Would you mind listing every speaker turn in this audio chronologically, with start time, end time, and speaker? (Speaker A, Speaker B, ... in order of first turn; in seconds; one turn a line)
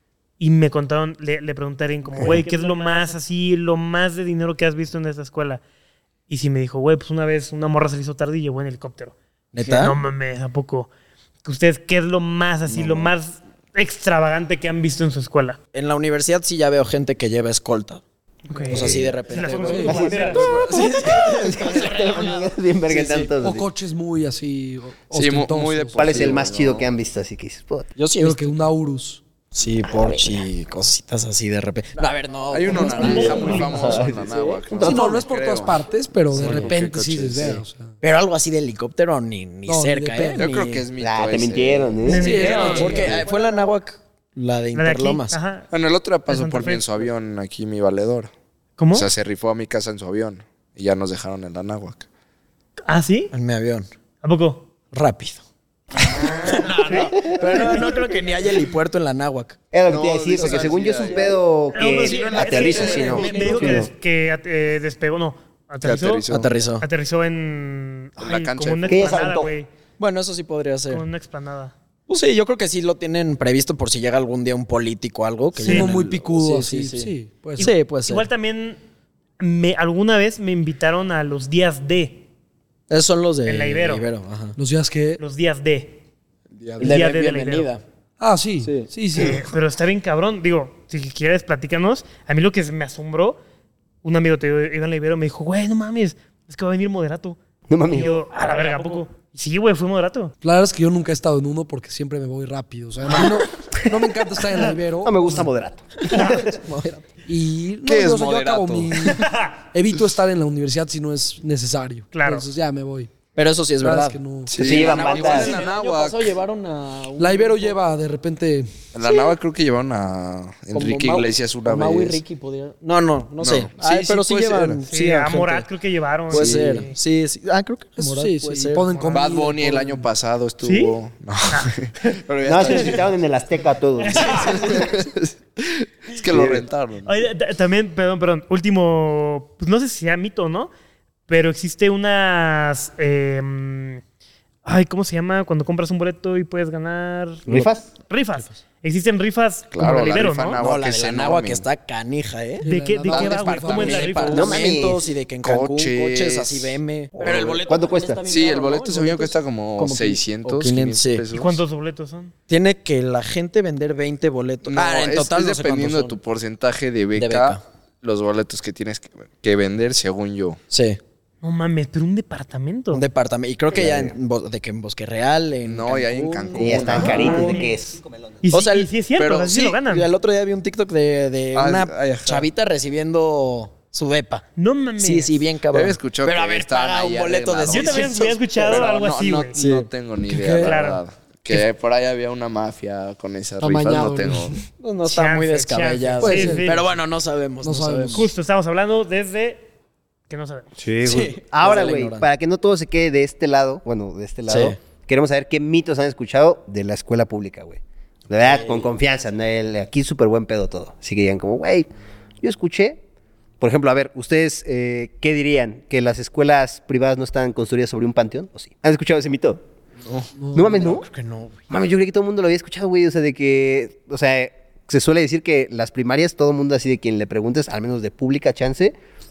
Speaker A: 0.4-5.6
Speaker A: 6.3-10.9
Speaker B: 9.5-10.0
Speaker A: 11.4-15.6
Speaker C: 12.7-13.1
Speaker B: 15.7-18.0
Speaker A: 18.5-20.6
Speaker D: 18.6-20.6
Speaker B: 18.7-23.3
Speaker C: 18.7-19.0
Speaker C: 19.8-23.6
Speaker D: 23.4-26.3
Speaker E: 25.1-26.9
Speaker C: 26.0-27.9
Speaker B: 28.0-28.5
Speaker D: 28.2-29.2
Speaker B: 29.5-34.6
Speaker C: 29.9-30.4
Speaker E: 32.5-37.6
Speaker D: 32.8-33.6
Speaker A: 33.0-33.5
Speaker C: 33.2-34.1
Speaker C: 34.7-35.2
Speaker D: 34.8-37.9
Speaker B: 36.3-36.7
Speaker B: 38.0-40.9
Speaker D: 39.7-40.5
Speaker E: 40.3-43.2
Speaker C: 41.0-43.1
Speaker A: 42.0-43.1
Speaker D: 42.2-43.1
Speaker B: 42.2-45.4
Speaker A: 44.7-45.7
Speaker E: 45.7-48.3
Speaker A: 46.3-47.0
Speaker A: 48.8-49.1
Speaker E: 48.9-52.0
Speaker A: 52.9-53.3
Speaker B: 53.3-53.9
Speaker A: 54.2-54.7
Speaker B: 54.9-55.4
Speaker B: 56.0-59.6
Speaker A: 56.5-57.9
Speaker C: 59.7-63.9
Speaker E: 59.9-63.6
Speaker B: 60.3-61.2
Speaker A: 61.7-66.2
Speaker B: 62.2-63.9
Speaker E: 65.8-66.5
Speaker B: 66.3-66.8
Speaker A: 66.8-69.7
Speaker E: 68.2-69.3
Speaker C: 68.9-69.5
Speaker B: 70.0-71.0
Speaker A: 70.9-71.7
Speaker B: 72.1-78.3
Speaker D: 75.6-77.7
Speaker A: 75.6-75.9
Speaker A: 77.6-78.8
Speaker A: 79.4-82.2
Speaker B: 82.9-84.6
Speaker A: 83.5-84.1
Speaker D: 84.6-85.2
Speaker A: 85.2-86.0
Speaker E: 86.5-87.0
Speaker A: 86.8-87.7
Speaker B: 86.8-87.8
Speaker D: 88.2-89.4
Speaker B: 88.6-88.9
Speaker A: 89.1-93.4
Speaker A: 94.0-100.3
Speaker C: 97.7-98.1
Speaker D: 100.4-105.5
Speaker C: 105.0-106.5
Speaker A: 106.1-106.4
Speaker B: 106.1-107.0
Speaker D: 107.3-113.1
Speaker E: 107.8-109.2
Speaker A: 109.2-109.5
Speaker A: 112.1-112.5
Speaker B: 113.3-117.8
Speaker D: 113.8-114.8
Speaker E: 114.5-116.3
Speaker C: 114.6-115.5
Speaker D: 117.2-118.7
Speaker E: 118.9-122.2
Speaker B: 119.0-119.3
Speaker B: 120.7-125.7
Speaker E: 123.4-124.8
Speaker A: 124.9-127.0
Speaker B: 126.3-129.2
Speaker E: 126.4-126.8
Speaker D: 128.0-130.0
Speaker E: 129.1-133.1
Speaker A: 130.6-130.9
Speaker A: 131.5-133.0
Speaker C: 132.4-135.3
Speaker A: 134.0-134.8
Speaker E: 134.2-135.1
Speaker E: 135.6-137.2
Speaker C: 136.3-136.6
Speaker A: 137.1-140.7
Speaker A: 141.3-144.0
Speaker A: 144.6-150.6
Speaker C: 147.5-147.9
Speaker E: 149.7-151.7
Speaker B: 150.6-152.6
Speaker D: 152.6-154.2
Speaker A: 152.6-154.6
Speaker E: 153.1-154.6
Speaker B: 153.7-161.2
Speaker C: 154.3-155.0
Speaker E: 155.4-157.6
Speaker C: 157.3-158.2
Speaker E: 158.2-161.6
Speaker A: 161.3-162.3
Speaker B: 162.5-166.2
Speaker E: 164.7-170.6
Speaker B: 167.1-167.6
Speaker B: 170.7-171.0
Speaker A: 171.4-173.1
Speaker B: 172.9-177.7
Speaker E: 175.7-177.6
Speaker C: 176.6-178.3
Speaker A: 176.9-177.7
Speaker A: 178.4-180.1
Speaker B: 178.5-184.4
Speaker E: 181.5-182.5
Speaker A: 184.6-185.4
Speaker B: 185.0-188.8
Speaker E: 185.7-194.6
Speaker A: 187.7-189.6
Speaker B: 189.6-189.9
Speaker D: 190.3-190.8
Speaker A: 190.6-191.0
Speaker D: 193.6-194.6
Speaker B: 194.8-198.3
Speaker A: 195.1-196.9
Speaker D: 196.2-196.7
Speaker D: 197.6-198.3
Speaker A: 198.1-199.6
Speaker A: 200.3-200.7
Speaker C: 200.8-211.9
Speaker B: 201.0-202.2
Speaker B: 204.5-204.8
Speaker B: 208.4-208.9
Speaker C: 212.4-213.0
Speaker C: 213.6-219.6
Speaker E: 220.0-220.3
Speaker D: 220.4-220.8
Speaker C: 220.5-221.1
Speaker B: 220.6-221.6
Speaker C: 221.7-228.9